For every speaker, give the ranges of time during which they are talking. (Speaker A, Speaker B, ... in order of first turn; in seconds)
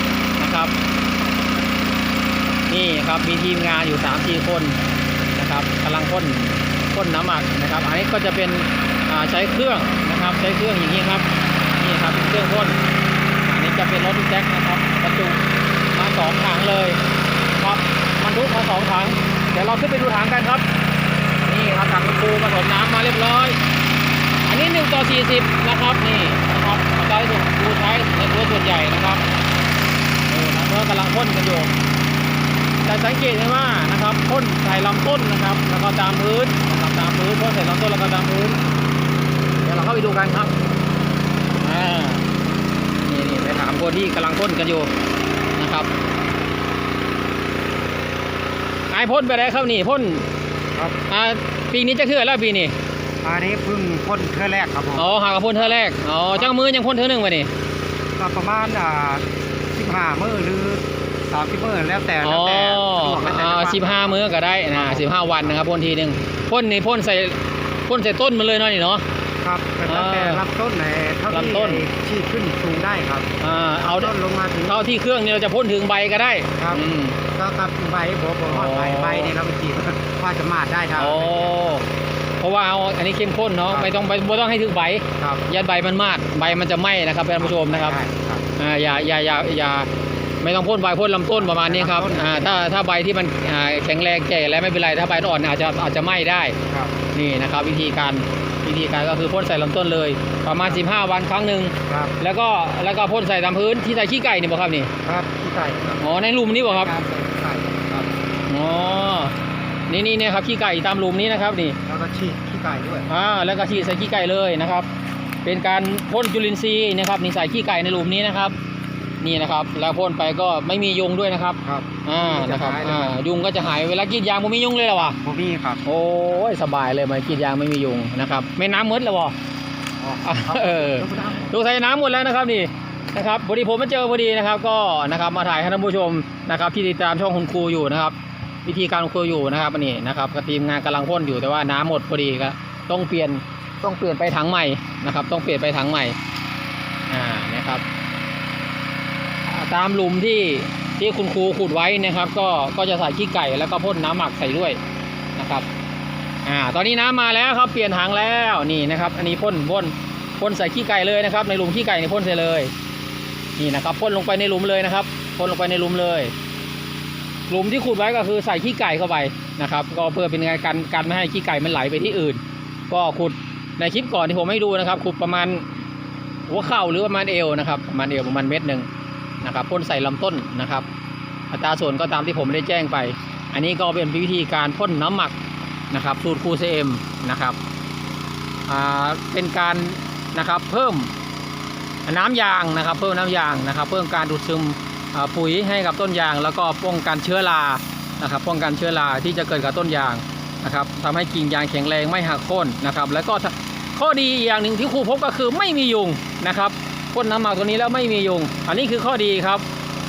Speaker A: 0.4-0.7, 2.7-4.8, 5.3-12.8, 13.4-15.4, 15.9-17.0, 17.6-20.6, 21.4-23.6, 24.4-29.2, 30.3-31.7, 32.8-38.6, 39.6-40.5, 41.6-42.2, 43.1-44.9, 45.6-45.9, 48.9-50.2, 51.1-52.7, 55.0-57.5, 62.2-69.0, 69.9-70.4, 71.3-71.8, 73.4-74.1, 74.6-77.2, 78.5-79.3, 81.0-81.8, 82.4-88.0, 88.5-89.9, 90.4-96.5, 97.1-104.9, 106.0-106.9, 108.5-109.3, 109.9-111.8, 113.1-114.9, 115.4-118.6, 119.2-125.2, 125.8-129.3, 130.2-146.2, 147.1-147.8, 149.4-154.8, 155.3-155.7, 156.4-162.7, 163.6-166.3, 167.5-175.7, 176.5-178.9, 179.4-180.8, 181.5-185.3, 185.9-187.6, 188.7-191.1, 192.1-209.6
Speaker B: 53.2-55.6, 58.2-64.2, 64.7-65.5, 69.4-74.8, 77.3-81.5, 87.4-88.4, 91.3-92.5, 96.7-96.9, 101.9-102.2, 105.0-106.0, 106.6-108.1, 111.8-113.1, 121.7-123.2, 125.0-125.8, 130.0-131.5